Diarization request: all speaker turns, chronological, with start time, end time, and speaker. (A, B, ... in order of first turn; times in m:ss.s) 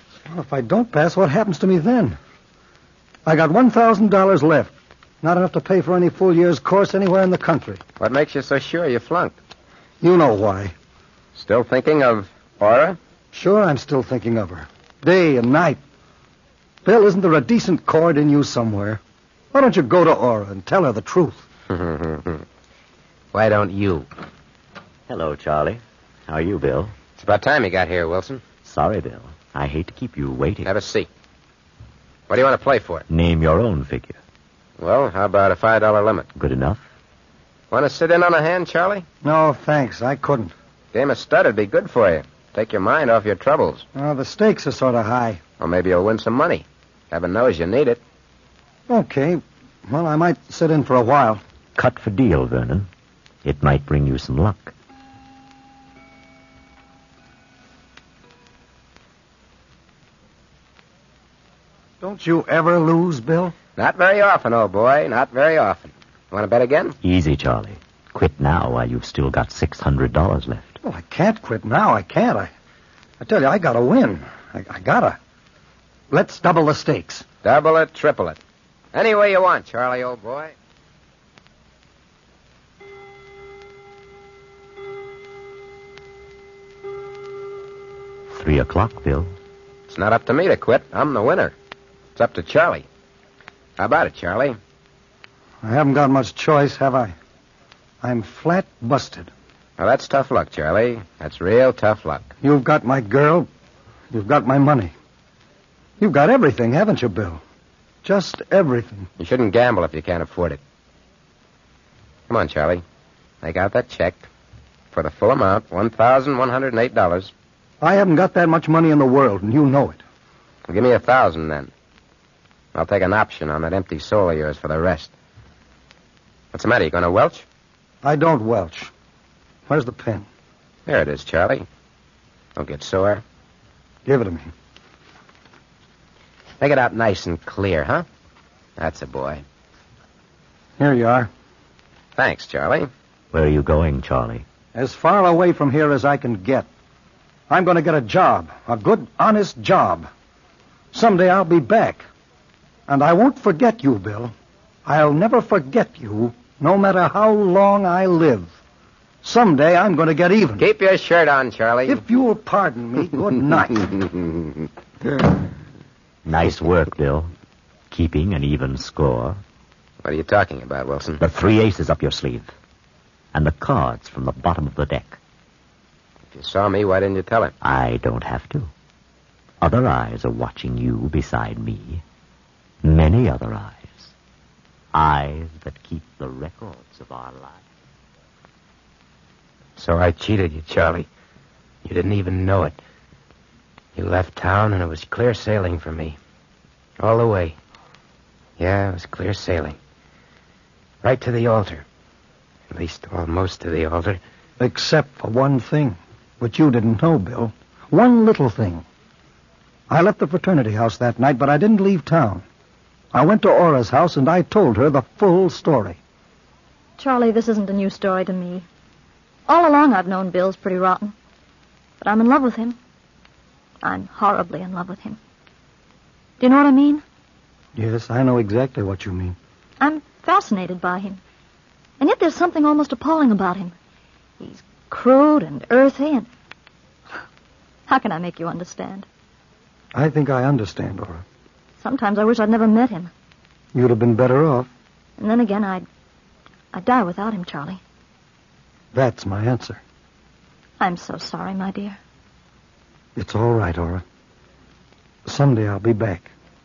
0:00.3-0:02.2 A
0:03.3-0:07.8 A
0:08.0-0:09.4 B
0:10.0-0:10.7 A
0:11.4-0:13.0 B
0:13.3-0:15.8 A
0:16.8-0:19.0 A
0:19.5-0:21.4 A
0:21.7-0:22.4 B
0:23.3-0:24.1 B
0:25.1-0:26.9 C
0:27.2-0:28.4 B
0:28.6-0:30.7 C
0:30.7-0:31.1 B
0:32.3-0:33.1 B
0:33.1-0:34.2 C
0:34.8-0:36.3 B
0:36.4-0:36.8 C
0:37.7-0:39.0 B
0:39.2-0:40.5 A
0:40.9-0:43.9 B
0:44.0-0:45.4 A
0:45.6-0:48.0 B
0:48.9-0:51.4 A
0:51.8-0:52.9 C
0:53.4-0:54.7 C
1:02.0-1:03.6 A
1:03.8-1:07.0 B
1:07.0-1:10.8 C
1:10.8-1:12.5 A
1:13.2-1:15.2 A
1:16.1-1:17.3 A
1:17.4-1:18.4 B
1:18.9-1:20.5 B
1:28.3-1:29.3 C
1:29.9-1:31.5 B
1:32.2-1:32.9 B
1:33.8-1:34.6 B
1:35.6-1:37.1 A
1:38.0-1:39.3 A
1:39.8-1:42.3 B
1:42.4-1:43.5 A
1:44.1-1:44.9 A
1:46.0-1:47.4 A
1:48.0-1:49.1 A
1:49.2-1:50.6 B
1:52.3-1:52.8 B
1:53.4-1:54.3 B
1:54.9-1:57.3 B
1:57.8-2:00.0 A
2:00.7-2:01.7 B
2:02.7-2:05.1 B
2:06.5-2:07.4 B
2:08.0-2:08.9 A
2:09.7-2:10.3 A
2:10.9-2:11.6 B
2:12.6-2:13.2 B
2:14.1-2:14.5 A
2:16.6-2:18.0 B
2:18.8-2:19.4 B
2:20.8-2:21.3 A
2:22.2-2:22.9 B
2:23.3-2:24.4 C
2:24.7-2:26.7 A
2:27.5-2:30.1 A
2:30.9-2:32.0 A
2:32.9-2:34.3 A
2:34.9-2:38.6 A
2:39.2-2:40.6 A
2:40.6-2:42.0 B
2:41.9-2:43.9 A
2:46.2-2:47.3 C
2:47.9-2:49.4 C
2:50.0-2:51.2 B
2:51.2-2:52.5 C
2:53.3-2:55.2 C
2:56.3-2:57.5 B
2:57.6-2:58.7 C
2:59.6-3:02.0 C
3:02.8-3:04.1 C
3:04.9-3:07.6 C
3:09.8-3:11.1 B
3:11.8-3:12.8 B
3:14.0-3:16.2 B
3:17.0-3:17.6 B
3:18.6-3:19.8 B
3:21.0-3:21.8 B
3:22.7-3:24.2 B
3:24.6-3:28.8 A
3:29.9-3:32.4 A
3:33.1-3:36.0 A
3:37.0-3:38.7 D
3:39.5-3:41.2 D
3:42.0-3:42.8 D
3:43.8-3:45.2 D
3:46.4-3:47.0 D
3:47.8-3:49.4 A
3:49.8-3:51.2 D
3:52.0-3:53.8 D
3:54.4-3:56.3 D
3:57.9-3:59.1 D
3:59.9-4:01.2 A
4:01.8-4:03.1 D
4:03.7-4:04.7 A
4:05.2-4:05.9 D
4:06.7-4:07.8 D
4:08.9-4:09.8 A
4:10.8-4:12.0 D
4:13.2-4:14.0 A
4:15.3-4:16.3 A